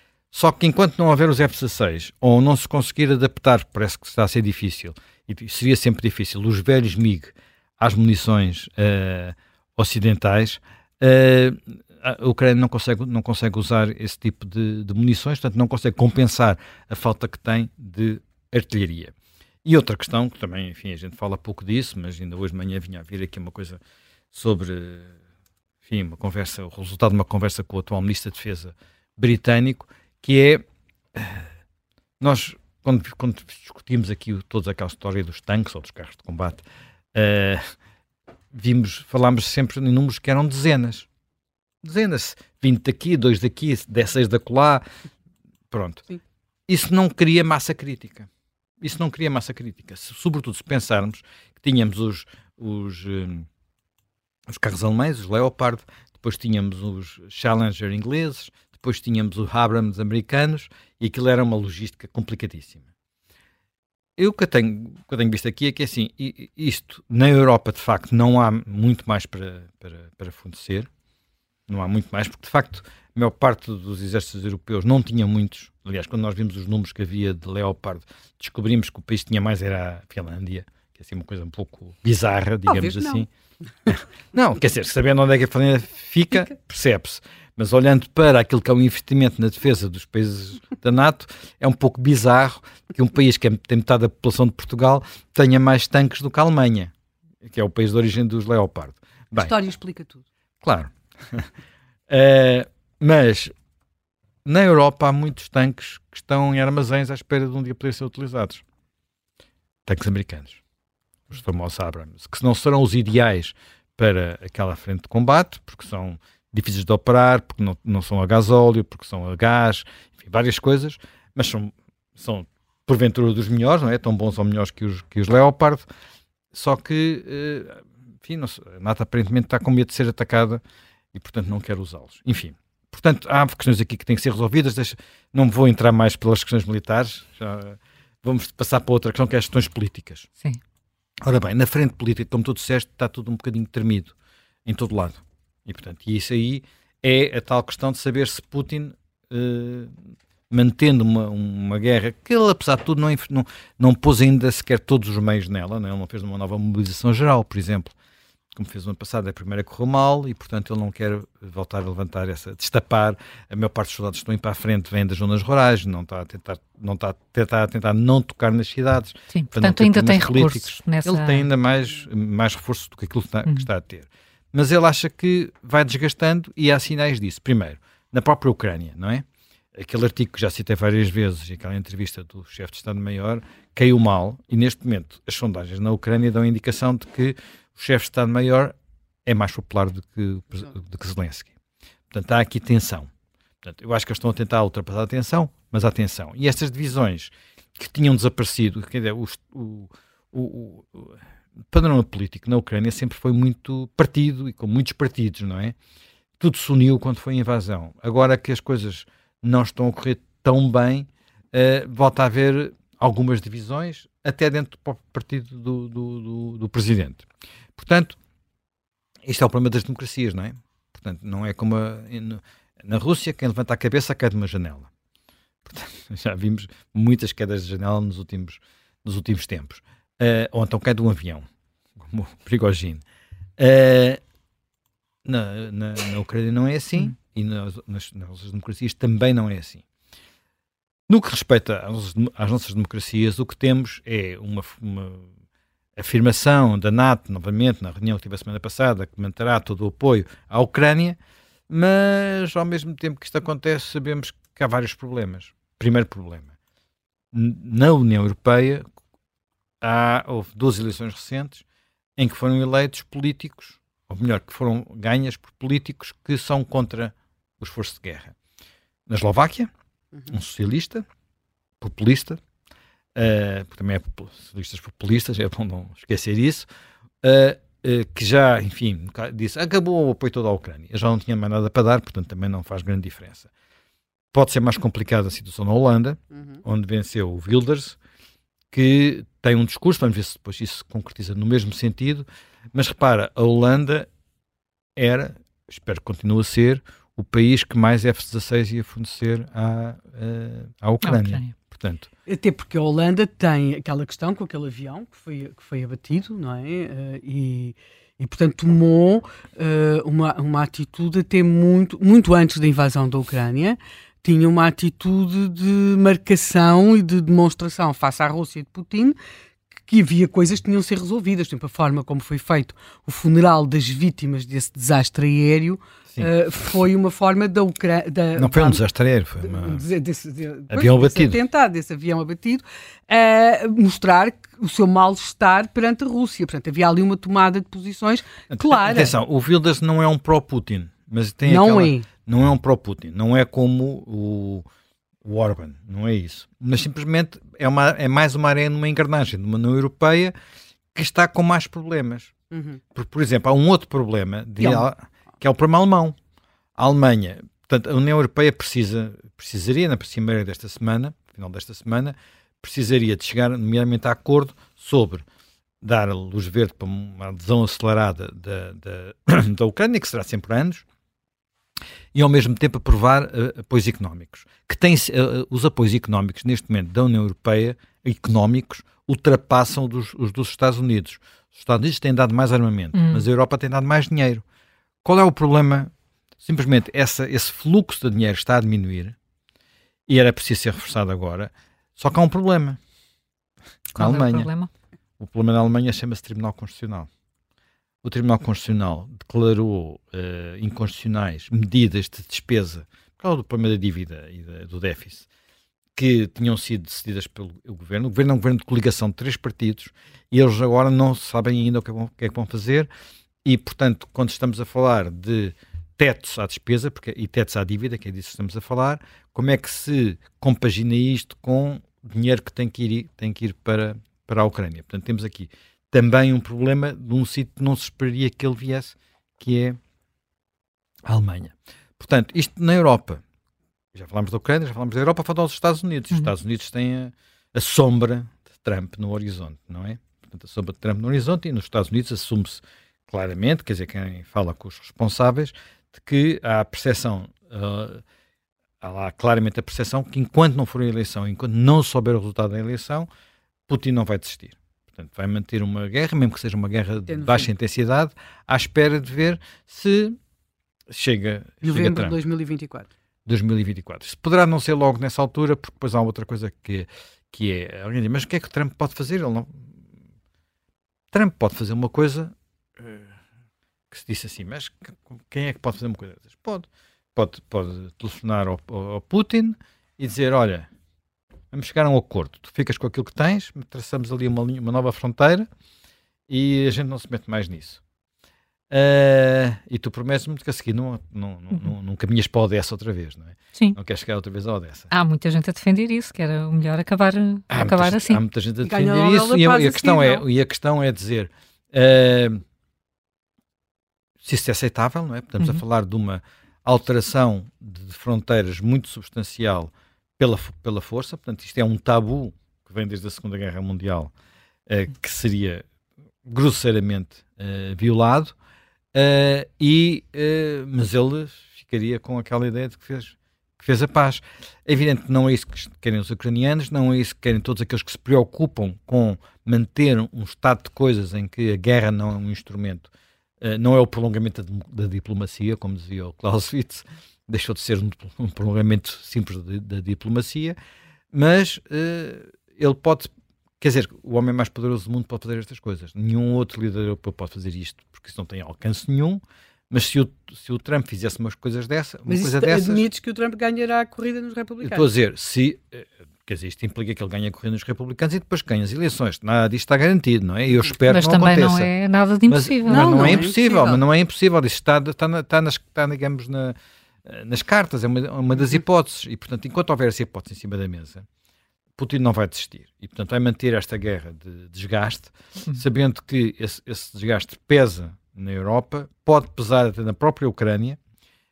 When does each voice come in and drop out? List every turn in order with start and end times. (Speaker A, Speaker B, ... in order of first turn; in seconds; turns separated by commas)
Speaker A: 0.3-19.1, Speaker A: 19.6-23.8, Speaker A: 24.3-25.1, Speaker A: 25.9-30.6, Speaker A: 31.1-31.4, Speaker A: 32.2-36.6, Speaker A: 37.1-37.7, Speaker A: 38.5-41.1, Speaker A: 41.8-44.8, Speaker A: 45.7-46.0, Speaker A: 46.7-48.3, Speaker A: 48.8-53.5, Speaker A: 54.5-62.8, Speaker A: 64.2-70.9, Speaker A: 71.7-83.3, Speaker B: 82.7-83.2, Speaker A: 83.9-96.9, Speaker A: 97.4-99.5, Speaker B: 99.3-100.2, Speaker A: 100.6-101.5, Speaker A: 102.1-103.5, Speaker A: 104.4-108.6, Speaker A: 109.8-110.6, Speaker A: 111.3-125.8, Speaker A: 126.5-130.6, Speaker A: 131.1-140.3, Speaker A: 141.2-144.1, Speaker A: 144.7-149.9, Speaker A: 150.5-157.9, Speaker A: 158.5-179.2, Speaker C: 169.3-171.4, Speaker A: 179.8-191.5, Speaker A: 192.1-193.1, Speaker A: 193.6-201.2, Speaker A: 201.7-205.7, Speaker A: 206.4-218.2, Speaker A: 219.2-224.9, Speaker A: 225.6-231.4, Speaker A: 232.0-233.0, Speaker A: 233.6-234.2, Speaker A: 235.2-239.8, Speaker A: 241.1-245.3, Speaker A: 246.0-251.2, Speaker A: 251.7-256.5, Speaker A: 257.3-258.9, Speaker A: 259.8-261.6, Speaker A: 262.2-268.3, Speaker A: 269.1-269.7, Speaker A: 270.3-271.0, Speaker A: 271.8-272.4, Speaker A: 273.1-276.7, Speaker A: 277.2-283.5, Speaker A: 284.3-288.0, Speaker B: 286.3-286.6, Speaker A: 288.7-294.1, Speaker A: 294.9-302.1, Speaker C: 301.0-301.5, Speaker B: 302.2-319.2, Speaker B: 319.9-328.8, Speaker A: 328.4-329.8, Speaker B: 329.4-339.1, Speaker A: 330.7-331.4, Speaker A: 338.5-344.6, Speaker B: 341.4-342.1, Speaker A: 345.2-350.3, Speaker A: 350.9-352.3, Speaker B: 352.5-352.8, Speaker A: 352.9-356.1, Speaker B: 354.6-354.9, Speaker A: 356.8-365.2, Speaker A: 365.8-370.8, Speaker A: 372.1-384.4, Speaker C: 382.9-383.2, Speaker A: 385.0-389.1, Speaker A: 390.1-392.8, Speaker C: 393.9-394.7, Speaker A: 393.9-394.5, Speaker A: 395.2-397.1, Speaker A: 398.0-405.2, Speaker A: 405.9-412.9, Speaker A: 413.4-429.8, Speaker A: 431.1-433.2, Speaker A: 433.9-448.0, Speaker A: 448.8-453.1, Speaker A: 453.7-460.2, Speaker B: 457.1-457.5, Speaker A: 460.9-462.2, Speaker B: 461.6-462.9, Speaker A: 463.3-469.7, Speaker A: 471.1-473.1, Speaker A: 473.9-480.7, Speaker A: 481.5-485.5, Speaker A: 486.3-487.8, Speaker A: 488.7-494.9, Speaker C: 494.9-498.2, Speaker A: 497.5-502.4, Speaker B: 498.6-500.2, Speaker A: 504.2-514.1, Speaker A: 514.7-515.6, Speaker A: 516.2-518.3, Speaker A: 518.9-532.9, Speaker A: 533.4-540.5, Speaker A: 541.1-552.8, Speaker B: 552.1-554.9, Speaker A: 554.6-561.7, Speaker C: 560.9-563.3, Speaker A: 562.3-571.0, Speaker B: 562.6-563.8, Speaker A: 571.8-580.8